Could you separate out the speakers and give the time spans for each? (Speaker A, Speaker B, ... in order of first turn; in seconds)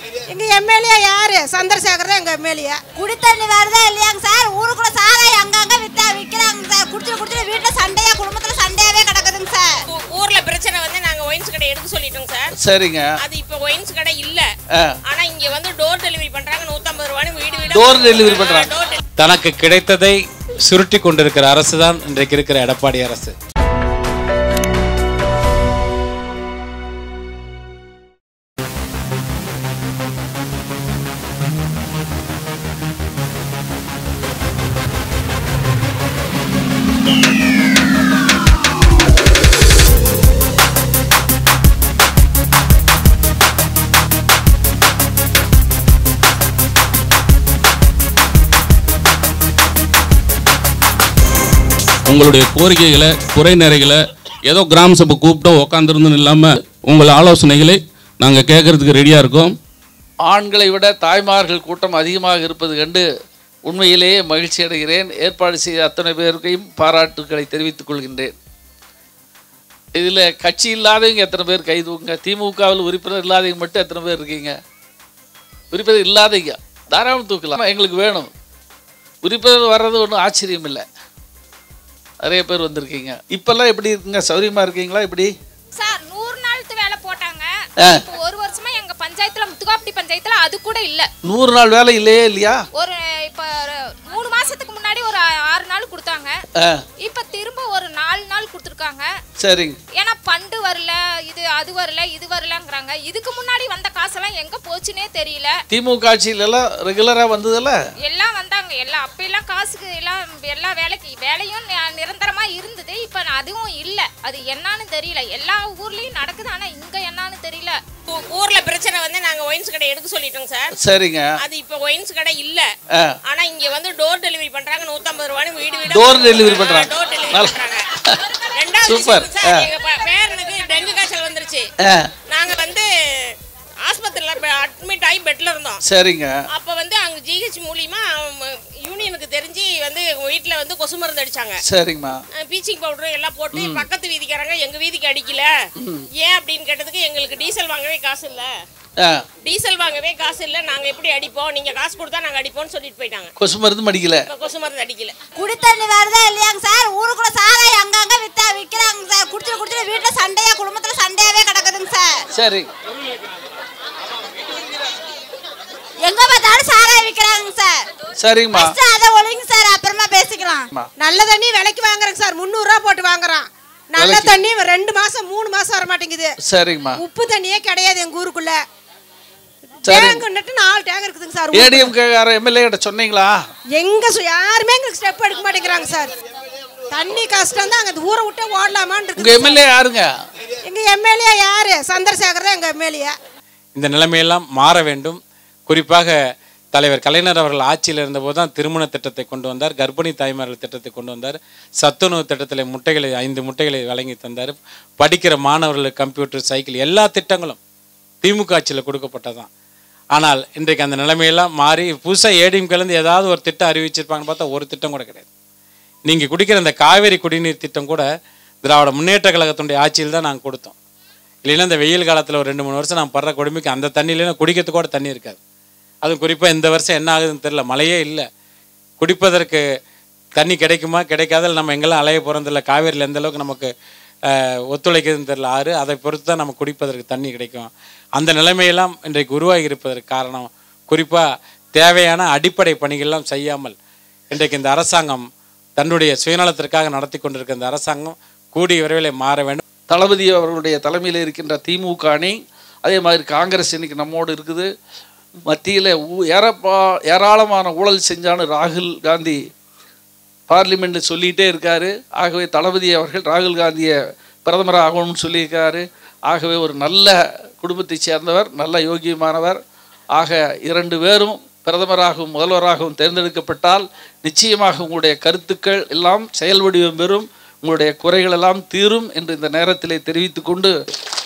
Speaker A: 0.3-2.8, 171.0-176.3, 177.0-178.6, 179.8-181.9, 183.8-186.1, 186.9-189.7, 190.6-193.1
Speaker B: 3.0-9.7, 155.4-162.2, 166.0-167.8, 168.6-170.7
Speaker C: 9.9-12.5, 13.2-14.4, 15.1-19.0, 118.1-120.7, 121.4-122.7, 123.3-127.9, 128.4-131.7, 132.3-132.9, 133.8-135.8, 136.5-141.6, 142.4-145.5, 146.2-148.5, 149.4-153.3, 154.3-155.2
Speaker D: 12.5-13.1, 17.7-18.7, 60.2-63.0, 63.6-68.3, 69.9-74.5, 75.7-78.3, 79.2-80.8, 82.2-85.3, 91.2-92.6, 96.6-96.8, 99.4-99.8, 105.7-107.8, 120.8-121.3, 125.9-127.5, 128.8-129.7, 131.8-132.1, 135.8-136.3, 141.7-142.2, 143.5-143.8, 145.8-146.1, 149.0-149.2, 153.4-154.2, 162.3-162.7, 168.2-168.7, 174.0-174.3, 176.4-177.0, 179.8-180.2, 181.5-183.4, 189.2-190.1, 249.9-254.7, 255.5-259.4, 260.5-269.6, 270.2-280.7
Speaker E: 19.2-23.3, 193.8-196.2, 196.7-207.6, 208.2-209.5, 210.2-215.3, 216.1-218.1, 218.6-220.7, 221.4-225.4, 226.0-228.2, 229.0-229.6, 230.4-233.7, 234.3-241.2, 241.7-243.7, 244.3-245.2, 245.8-249.6
Speaker F: 52.0-59.6
Speaker G: 85.8-91.1, 92.8-96.3, 97.0-99.1, 99.9-105.5, 108.0-117.8